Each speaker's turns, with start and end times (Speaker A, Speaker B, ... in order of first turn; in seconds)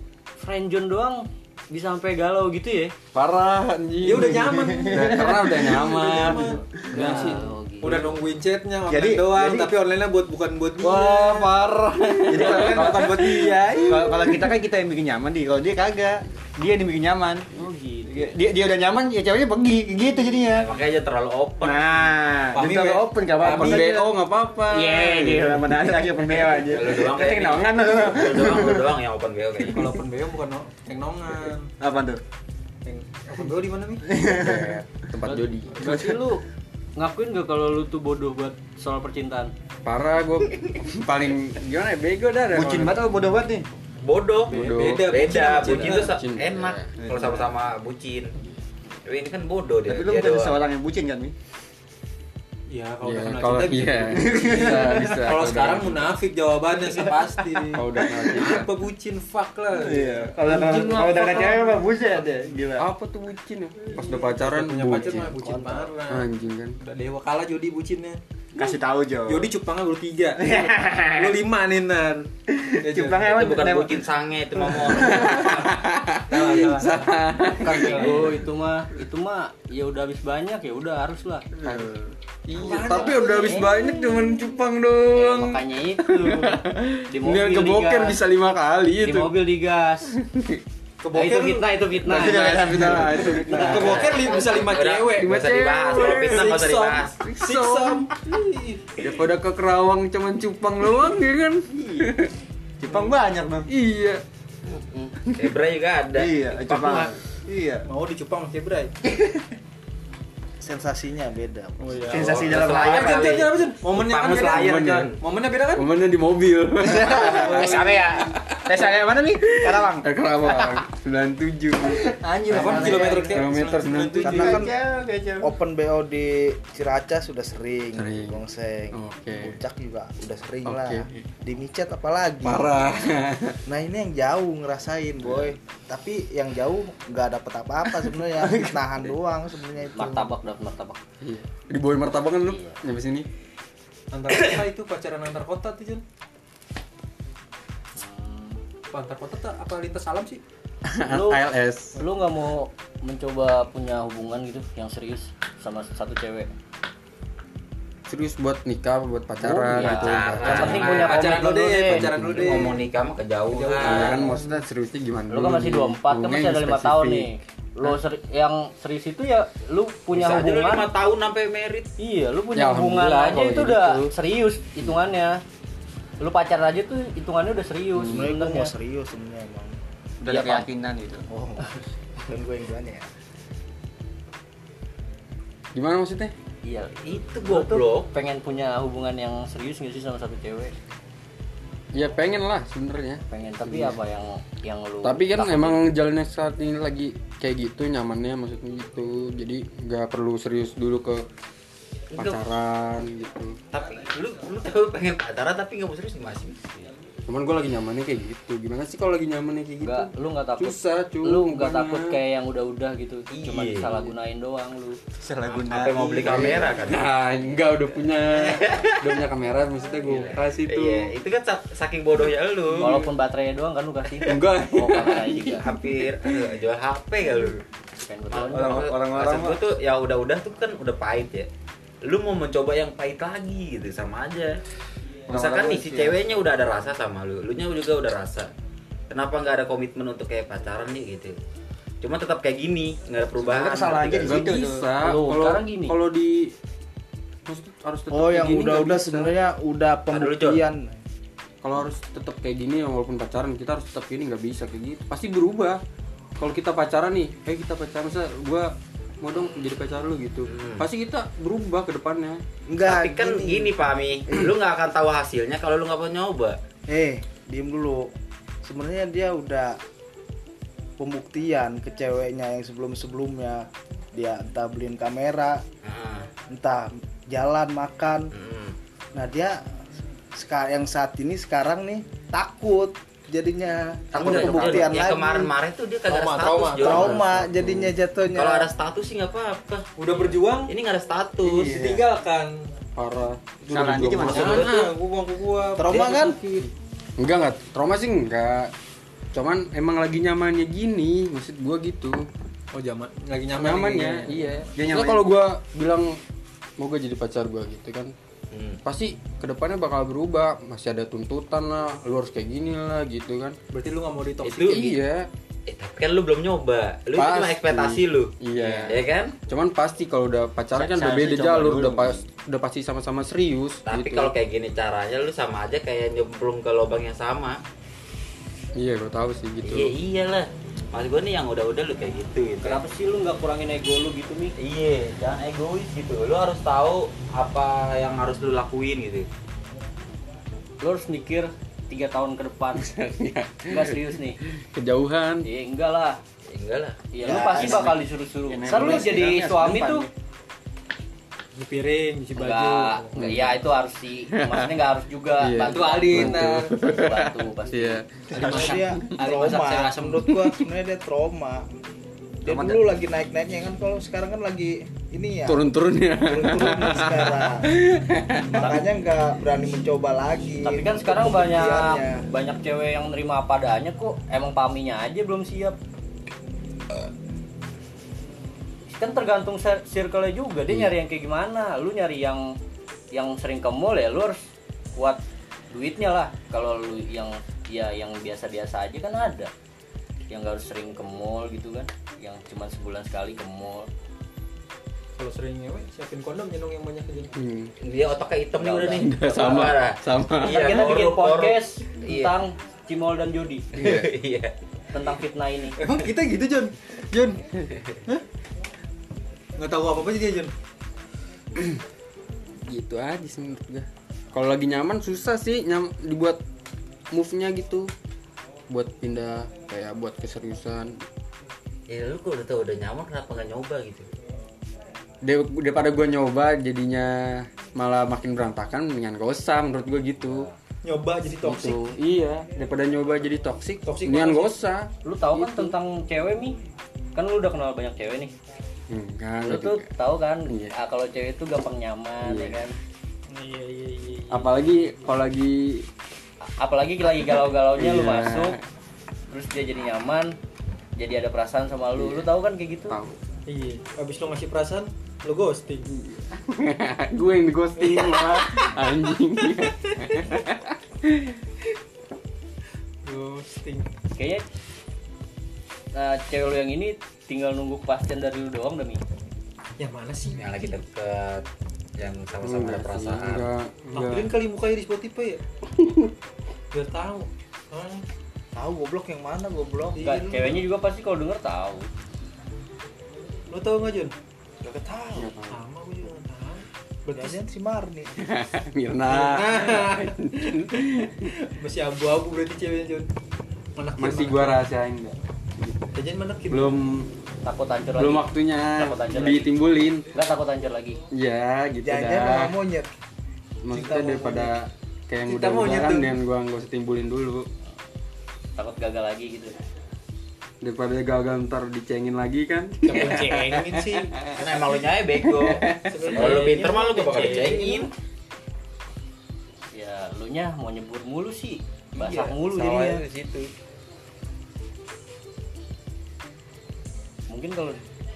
Speaker A: 0.4-3.0, 6.9-8.1, 17.5-18.4, 35.2-36.5, 37.0-39.5, 77.6-81.5, 82.6-83.7, 85.1-88.2, 89.0-90.1, 91.1-94.4, 101.8-102.1, 139.9-141.0, 142.4-142.8, 147.9-148.6, 151.1-156.5, 159.4-162.2, 165.3-170.9, 172.0-175.4, 176.2-178.7, 180.3-180.7, 186.6-190.8, 193.3-195.8, 209.8-215.0, 222.8-225.7, 228.0-228.9, 245.0-246.0, 332.6-334.5, 340.8-342.9, 343.7-344.4, 345.4-346.2, 347.1-350.1, 352.4-358.0, 370.6-375.8, 378.9-382.6, 383.1-389.5, 390.3-393.9, 398.6-399.2, 400.4-403.7, 404.9-405.8, 430.2-430.5, 435.0-436.6, 437.1-438.3, 439.4-442.8, 446.5-448.6, 449.3-450.4, 451.0-453.0, 464.2-464.4, 465.9-469.0, 480.0-481.9, 497.4-499.6, 500.1-501.0, 508.6-509.6, 516.1-516.7, 519.7-523.0, 527.3-527.8
Speaker B: 3.1-7.4, 10.8-14.5, 23.5-25.8, 34.2-36.0, 39.9-43.0, 44.5-47.2, 53.0-56.2, 57.7-58.7, 62.8-65.4, 66.1-66.8, 75.0-78.4, 81.6-89.4, 90.2-90.6, 92.2-93.8, 95.2-96.5, 97.2-98.1, 99.0-102.3, 103.7-104.2, 114.5-115.1, 115.7-118.9, 119.4-122.0, 122.7-124.5, 128.0-128.4, 128.9-129.6, 130.7-131.1, 132.4-133.6, 141.2-143.3, 150.9-152.0, 158.1-162.7, 163.8-167.3, 172.6-174.1, 177.9-178.3, 185.7-186.3, 191.9-194.0, 195.0-201.3, 202.1-203.6, 207.3-212.2, 216.2-221.1, 224.2-226.4, 244.2-246.6, 247.5-249.3, 251.6-255.8, 256.4-262.4, 284.2-284.8, 287.0-287.9, 291.5-292.0, 293.0-294.7, 296.6-298.7, 299.3-302.3, 303.6-306.2, 306.8-308.1, 308.9-313.6, 314.7-315.3, 317.2-324.3, 328.8-329.9, 342.7-345.5, 353.1-353.6, 354.3-354.8, 355.4-359.3, 365.5-368.8, 380.7-380.9, 397.4-397.7, 399.0-400.8, 403.8-404.1, 412.7-416.4, 417.1-417.9, 418.7-421.0, 425.2-430.5, 431.4-435.7, 438.9-440.0, 440.5-440.8, 442.2-442.6, 444.3-445.9, 447.8-448.6, 452.0-452.3, 452.9-453.2, 455.9-461.4, 472.4-474.3, 475.7-476.1, 485.2-485.6, 488.2-491.3, 494.0-495.9, 496.5-497.1, 498.0-500.1, 501.1-502.5, 503.6-507.5, 510.6-514.4, 515.2-516.1
Speaker C: 4.0-11.5, 12.5-12.9, 22.6-24.0, 29.7-31.7, 32.9-34.1, 44.5-46.2, 52.7-61.9, 63.9-66.3, 66.8-68.2, 69.3-72.3, 72.8-73.3, 76.3-78.2, 82.5-83.8, 91.0-91.8, 93.5-95.4, 96.0-99.0, 102.9-103.2, 107.9-108.9, 111.8-115.9, 117.1-118.2, 122.5-124.7, 144.1-146.0, 148.9-150.4, 160.5-162.9, 163.5-164.6, 286.1-287.2, 290.0-290.7, 291.4-292.7, 294.1-296.7, 302.7-304.7, 313.7-315.0, 351.6-353.4, 355.6-356.7, 358.3-360.3, 395.2-397.3, 405.8-407.5, 409.6-410.5, 430.8-431.9, 433.9-434.5, 443.3-444.7, 453.5-455.9, 457.8-458.7, 463.1-463.9, 469.8-470.7, 473.9-475.4, 476.7-478.0, 480.0-480.7, 483.5-484.1, 485.5-487.4, 489.1-493.1, 493.8-494.7, 495.9-496.8, 505.2-506.2, 512.9-514.1, 515.9-517.9
Speaker D: 4.5-5.8, 8.9-9.7, 12.3-17.5, 18.1-20.7, 21.6-24.1, 24.6-28.9, 31.8-32.2, 34.0-34.8, 35.9-36.2, 42.5-43.7, 47.0-47.5, 49.9-51.3, 54.1-55.3, 56.9-57.6, 59.7-62.9, 68.5-69.5, 70.4-71.4, 72.5-74.0, 74.6-75.5, 81.6-82.1, 92.0-94.2, 102.8-103.7, 106.2-107.9, 109.1-109.4, 112.1-113.5, 116.8-120.8, 121.9-123.5, 124.2-125.5, 180.2-181.2, 215.2-216.5, 228.4-229.6, 235.3-236.3, 243.4-244.9, 293.7-294.8, 304.9-305.2, 320.7-322.2, 347.3-350.1, 358.4-358.7, 362.5-362.9
Speaker E: 20.5-22.1, 26.2-29.9, 44.0-48.4, 49.0-50.6, 73.3-75.8, 93.6-97.2, 104.7-107.0, 112.1-115.2, 159.8-161.5, 162.3-164.3, 170.1-171.9, 187.0-188.1, 202.1-202.4, 203.7-206.6, 213.3-214.0, 215.5-217.1, 218.3-219.2, 220.6-223.1, 225.6-227.6, 228.3-231.5, 232.0-234.6, 235.3-238.5, 239.1-241.4, 242.0-244.5, 250.1-250.6, 260.5-260.9, 262.9-266.6, 275.8-276.3, 278.3-278.8, 284.1-287.2, 288.4-291.8, 294.4-294.8, 308.5-308.8, 314.4-314.8, 315.7-319.4, 323.9-327.6, 329.6-332.8, 334.6-339.3, 346.5-347.7, 397.8-402.4, 403.7-404.6, 421.9-424.1, 470.4-471.5, 472.0-473.5, 514.4-517.9, 522.0-523.5
Speaker F: 64.9-65.9, 110.6-112.2, 124.2-124.7, 125.4-132.8, 133.7-140.3, 178.1-179.8, 181.3-181.7, 182.2-183.1, 248.1-251.0, 262.7-263.8, 266.9-268.1, 268.6-269.8, 271.0-275.6, 276.5-278.3, 279.1-279.6, 280.3-285.5, 286.8-288.7, 295.8-296.4, 347.3-347.6, 358.3-361.7, 362.4-365.7, 366.2-367.7, 368.5-372.2, 478.5-480.1, 484.6-485.3, 487.1-488.1, 501.8-502.9, 503.7-504.5